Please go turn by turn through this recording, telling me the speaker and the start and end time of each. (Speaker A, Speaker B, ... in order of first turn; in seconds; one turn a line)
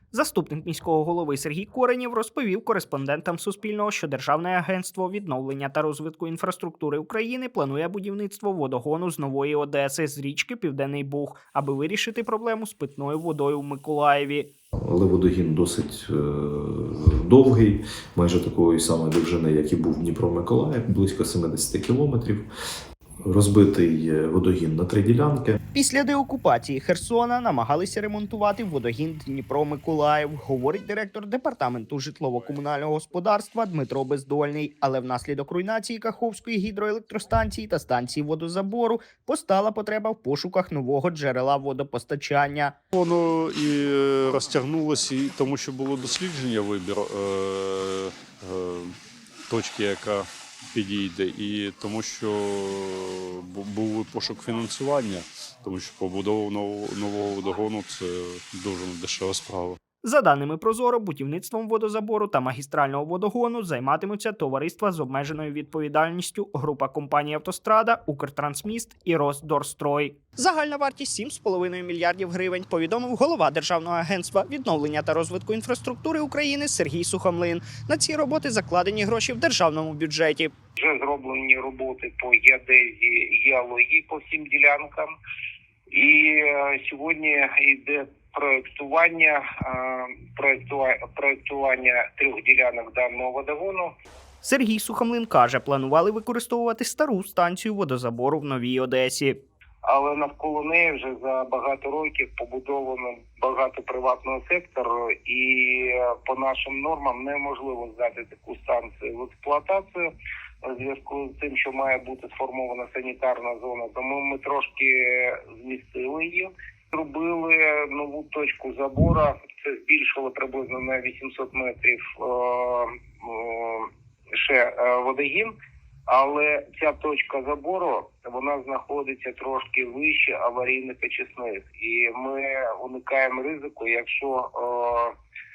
Speaker A: 0.1-14.5
Speaker B: 14.8-22.5
Speaker B: 23.2-25.6
Speaker A: 25.8-42.8
Speaker C: 42.9-48.9
Speaker C: 49.5-59.8
Speaker A: 60.0-80.5
Speaker D: 80.8-85.1
Speaker D: 85.9-93.9
Speaker A: 94.4-99.4
Speaker D: 99.9-110.0
Speaker D: 110.7-125.5
Speaker D: 126.1-135.1